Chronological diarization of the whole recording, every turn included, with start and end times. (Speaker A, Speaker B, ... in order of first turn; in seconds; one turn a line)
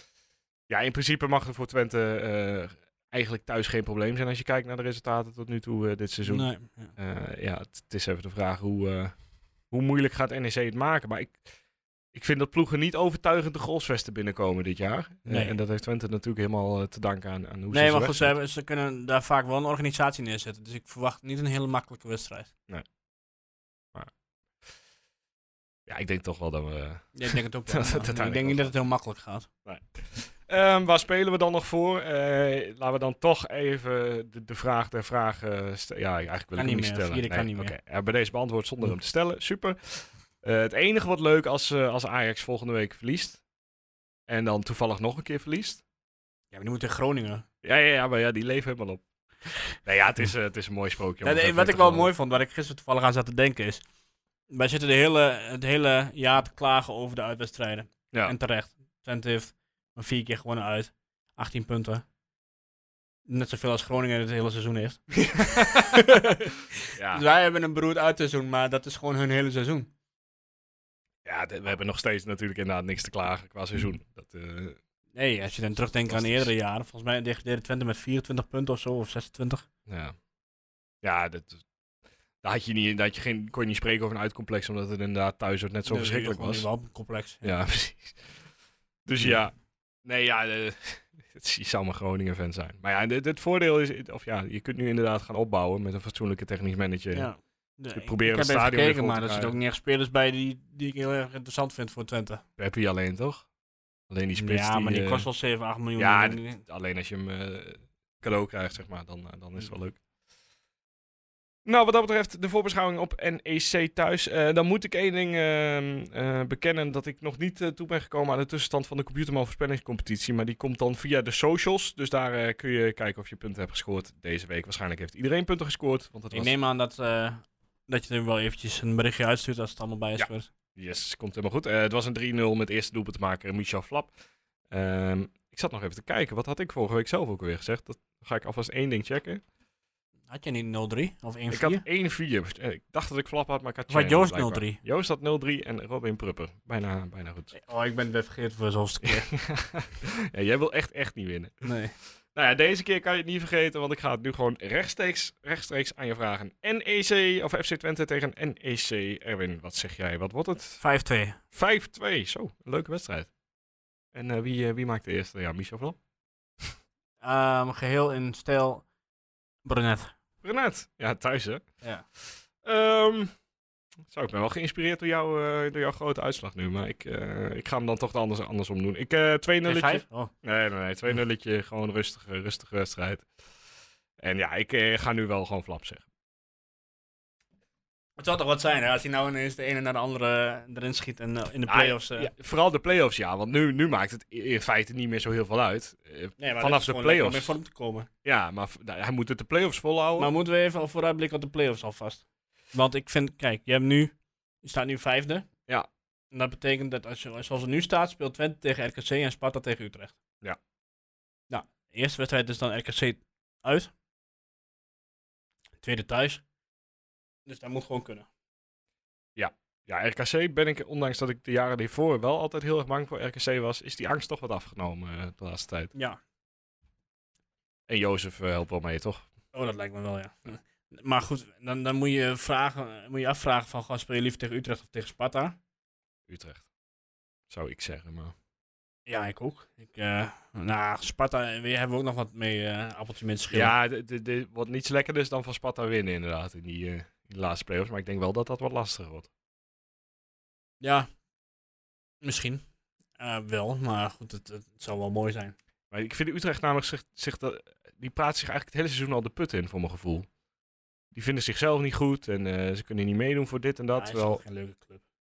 Speaker A: 0.7-9.2
Speaker B: 6.3-6.9
Speaker A: 9.7-11.4
Speaker A: 12.1-18.4
Speaker B: 15.3-15.6
Speaker B: 17.7-22.5
Speaker A: 25.9-28.7
Speaker B: 27.1-29.5
Speaker A: 29.6-43.4
Speaker B: 36.6-37.7
Speaker A: 44.3-45.8
Speaker B: 46.5-47.5
Speaker A: 47.6-49.0
Speaker A: 49.8-52.1
Speaker B: 51.2-53.8
Speaker B: 54.5-62.0
Speaker B: 63.3-69.9
Speaker A: 65.2-66.0
Speaker A: 66.9-67.2
Speaker A: 71.2-74.8
Speaker B: 75.2-79.7
Speaker A: 76.1-76.5
Speaker A: 79.9-80.2
Speaker A: 81.0-81.6
Speaker A: 82.4-86.7
Speaker B: 85.9-87.5
Speaker A: 87.4-88.3
Speaker A: 89.0-97.3
Speaker B: 97.1-102.4
Speaker A: 97.9-99.6
Speaker A: 102.6-103.5
Speaker A: 104.1-105.3
Speaker B: 104.3-106.6
Speaker A: 106.0-110.0
Speaker A: 111.7-126.5
Speaker B: 126.3-130.5
Speaker A: 130.2-134.1
Speaker A: 134.7-139.4
Speaker B: 140.3-141.8
Speaker A: 141.5-147.6
Speaker B: 143.9-144.8
Speaker B: 147.6-149.3
Speaker A: 149.0-151.6
Speaker B: 151.6-151.9
Speaker A: 152.3-160.8
Speaker B: 160.8-161.4
Speaker A: 161.5-163.3
Speaker A: 164.1-166.0
Speaker B: 167.2-168.8
Speaker B: 169.7-170.1
Speaker A: 170.4-171.6
Speaker A: 172.6-173.3
Speaker A: 174.1-183.3
Speaker B: 179.7-180.3
Speaker A: 184.2-186.0
Speaker B: 188.2-192.3
Speaker A: 191.7-197.6
Speaker B: 196.4-198.1
Speaker A: 198.2-200.3
Speaker B: 200.2-205.5
Speaker B: 206.3-210.2
Speaker B: 211.5-213.9
Speaker B: 215.8-216.4
Speaker B: 217.5-218.3
Speaker A: 219.4-225.9
Speaker B: 225.9-226.2
Speaker A: 227.9-229.3
Speaker B: 229.5-235.6
Speaker A: 236.3-236.7
Speaker A: 237.5-238.3
Speaker B: 239.1-243.7
Speaker A: 243.5-249.3
Speaker B: 250.8-251.1
Speaker B: 252.2-252.6
Speaker B: 253.2-255.6
Speaker A: 255.9-260.3
Speaker A: 261.1-264.4
Speaker B: 264.0-265.0